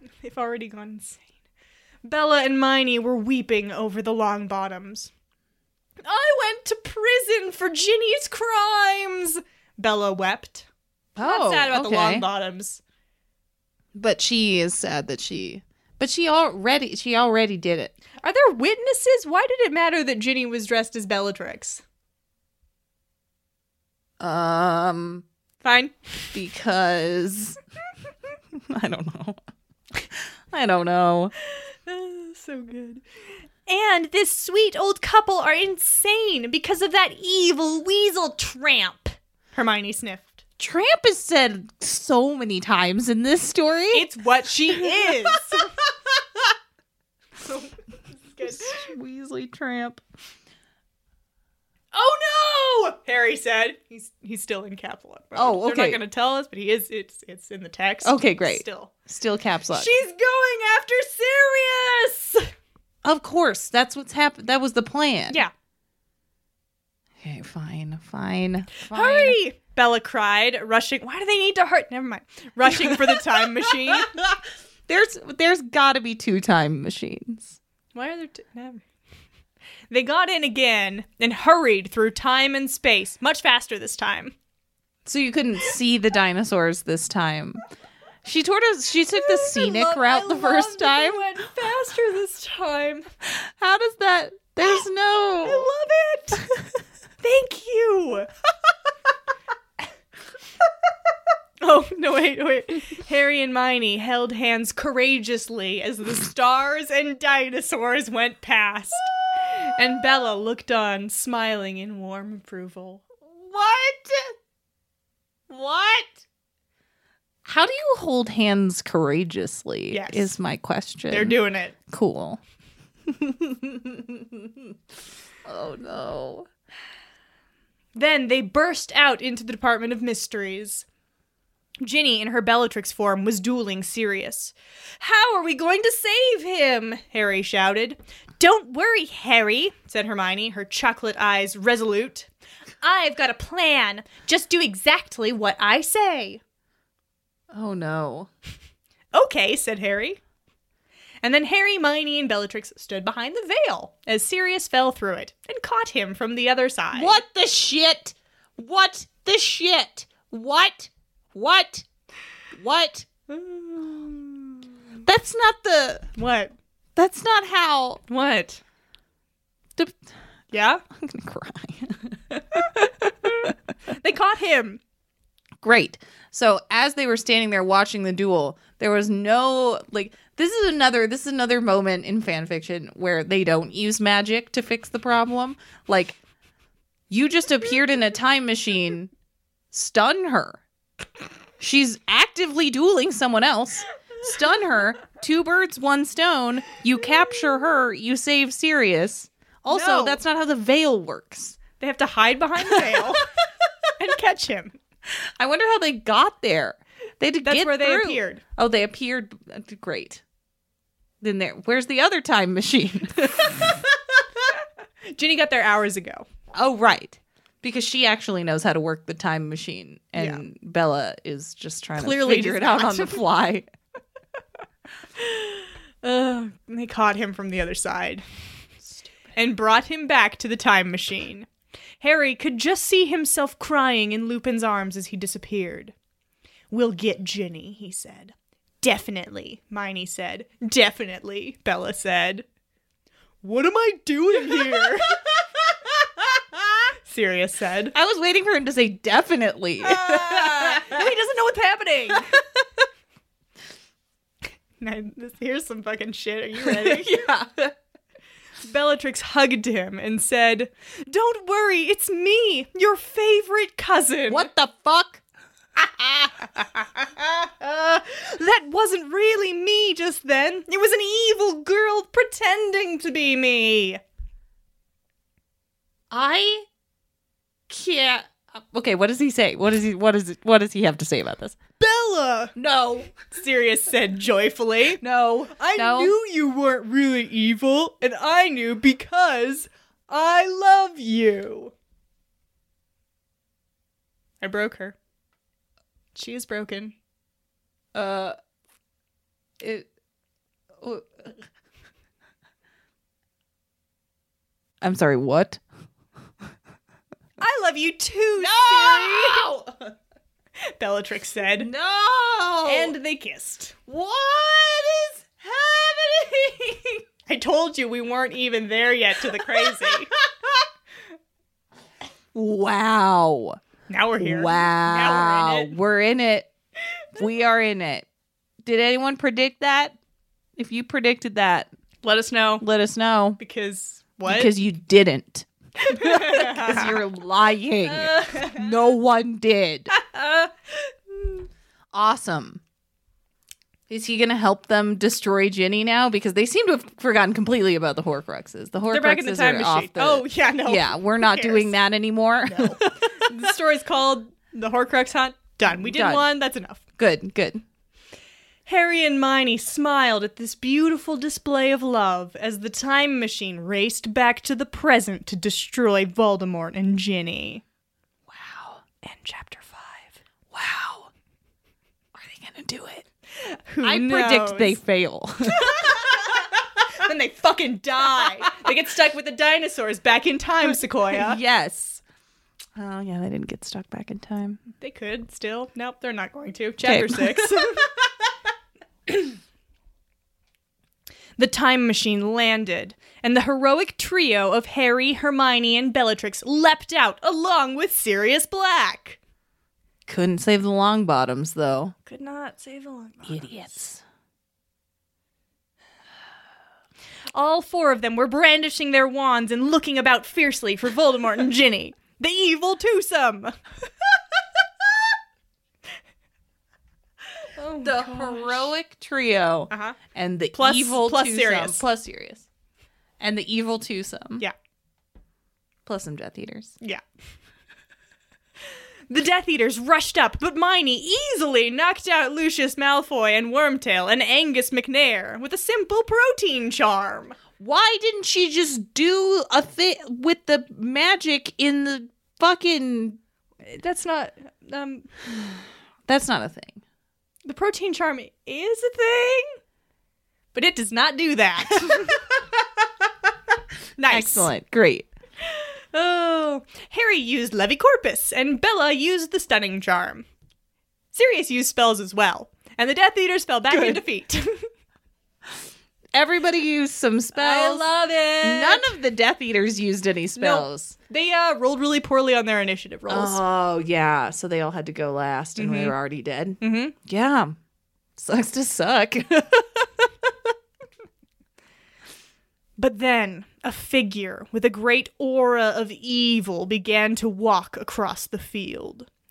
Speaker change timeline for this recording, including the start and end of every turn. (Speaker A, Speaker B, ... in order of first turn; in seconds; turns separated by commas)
Speaker A: 0.2-1.3, Speaker A: 2.0-5.1, Speaker A: 6.0-10.7, Speaker B: 11.2-12.2, Speaker A: 11.2-12.8, Speaker B: 13.9-18.0, Speaker A: 18.2-21.8, Speaker B: 24.2-25.2, Speaker A: 25.6-26.4, Speaker B: 26.3-27.6, Speaker B: 28.6-29.4, Speaker B: 29.9-31.3, Speaker A: 31.5-33.0, Speaker A: 33.6-40.4, Speaker B: 40.6-44.1, Speaker A: 43.9-45.8, Speaker B: 44.9-45.1, Speaker A: 47.4-48.9, Speaker B: 48.4-50.0, Speaker A: 51.9-58.9, Speaker B: 55.4-56.0, Speaker B: 58.0-59.9, Speaker A: 59.7-62.5, Speaker B: 63.0-65.4, Speaker B: 67.2-69.4, Speaker A: 68.9-74.1, Speaker B: 72.7-77.6, Speaker A: 77.9-78.8, Speaker A: 79.9-84.3, Speaker B: 85.0-87.6, Speaker B: 88.2-91.4, Speaker A: 89.1-93.1, Speaker B: 93.2-95.7, Speaker A: 95.4-96.4, Speaker A: 97.2-98.3, Speaker A: 101.6-113.0, Speaker B: 113.2-114.3, Speaker B: 115.5-116.2, Speaker B: 117.4-122.4, Speaker A: 119.9-120.3, Speaker A: 121.1-121.8, Speaker B: 123.1-124.8, Speaker B: 125.4-126.5, Speaker A: 127.9-130.8, Speaker A: 131.8-142.3, Speaker A: 142.8-146.4, Speaker B: 147.5-148.3, Speaker A: 149.1-150.2, Speaker A: 151.2-157.2, Speaker B: 156.9-161.9, Speaker B: 162.5-163.1, Speaker A: 163.3-164.6, Speaker B: 165.0-166.1, Speaker A: 166.2-166.5, Speaker B: 167.0-168.0, Speaker A: 168.1-168.6, Speaker B: 169.8-170.1, Speaker A: 170.5-170.8, Speaker B: 170.9-172.8, Speaker A: 172.5-174.8, Speaker B: 175.6-186.2, Speaker B: 187.1-189.1, Speaker B: 189.7-190.6, Speaker B: 191.6-201.6, Speaker A: 199.7-200.2, Speaker A: 201.8-203.3, Speaker B: 202.6-203.1, Speaker A: 204.0-204.8, Speaker B: 205.4-210.2, Speaker A: 207.4-208.4, Speaker B: 211.2-213.9, Speaker A: 215.1-216.2, Speaker B: 216.5-223.7, Speaker A: 220.2-220.4, Speaker A: 222.0-223.2, Speaker A: 225.2-228.2, Speaker A: 229.3-231.5, Speaker A: 232.0-235.9, Speaker A: 236.7-242.5, Speaker A: 243.4-246.2, Speaker A: 247.0-247.9, Speaker B: 247.9-251.1, Speaker A: 249.8-252.4, Speaker A: 254.8-257.3, Speaker B: 256.6-257.7, Speaker A: 258.6-264.5, Speaker B: 264.3-265.2, Speaker B: 265.8-266.6, Speaker A: 267.0-274.0, Speaker B: 276.1-276.7, Speaker B: 277.7-281.6, Speaker A: 281.8-282.6, Speaker B: 282.6-283.1, Speaker A: 283.3-291.7, Speaker B: 285.0-286.1, Speaker A: 294.4-295.0, Speaker A: 296.1-296.9, Speaker B: 297.9-298.4, Speaker B: 299.6-299.9, Speaker B: 300.8-301.4, Speaker B: 304.8-305.6, Speaker A: 307.4-309.5, Speaker B: 308.4-310.0, Speaker A: 310.7-311.7, Speaker B: 311.6-312.9, Speaker A: 312.6-313.8, Speaker B: 313.9-317.0, Speaker A: 317.3-320.1, Speaker B: 319.4-320.6, Speaker B: 322.3-323.6, Speaker A: 323.9-325.7, Speaker B: 324.2-326.5, Speaker B: 327.1-328.1, Speaker B: 328.6-330.0, Speaker B: 330.6-331.7, Speaker A: 332.0-332.6, Speaker B: 332.6-333.4, Speaker A: 333.4-334.5, Speaker B: 334.2-339.9, Speaker A: 335.9-337.0, Speaker A: 337.8-338.7, Speaker A: 339.9-341.4, Speaker B: 341.9-342.6, Speaker B: 343.9-353.3, Speaker A: 348.9-351.8, Speaker A: 352.4-356.8, Speaker B: 355.7-356.3, Speaker B: 357.0-357.6, Speaker A: 358.6-367.6, Speaker B: 368.3-368.8, Speaker A: 369.0-370.2, Speaker B: 370.5-371.1, Speaker B: 372.1-373.1, Speaker A: 373.4-374.8, Speaker B: 373.8-376.2, Speaker A: 375.5-381.4, Speaker B: 381.1-382.0, Speaker B: 382.8-384.6, Speaker A: 384.8-387.9, Speaker B: 386.8-387.9, Speaker A: 391.4-399.2, Speaker B: 400.1-401.9, Speaker A: 402.1-403.8, Speaker B: 403.2-404.0, Speaker A: 407.3-413.6, Speaker A: 417.4-418.7, Speaker B: 417.8-422.5, Speaker A: 419.7-420.0, Speaker A: 420.5-421.9, Speaker B: 423.2-424.4, Speaker B: 425.9-426.8, Speaker A: 429.1-437.4, Speaker B: 437.6-443.2, Speaker A: 443.6-445.1, Speaker B: 446.1-446.8, Speaker A: 447.4-449.6, Speaker A: 450.5-452.5, Speaker B: 451.8-452.2, Speaker A: 454.0-454.5, Speaker B: 454.1-455.1, Speaker A: 455.4-460.3, Speaker A: 461.1-464.6, Speaker B: 463.7-464.0, Speaker B: 466.1-470.9, Speaker A: 467.3-468.9, Speaker A: 470.4-473.4, Speaker B: 473.1-477.6, Speaker A: 475.6-476.0, Speaker A: 476.6-476.9, Speaker B: 478.1-480.3, Speaker A: 482.8-489.1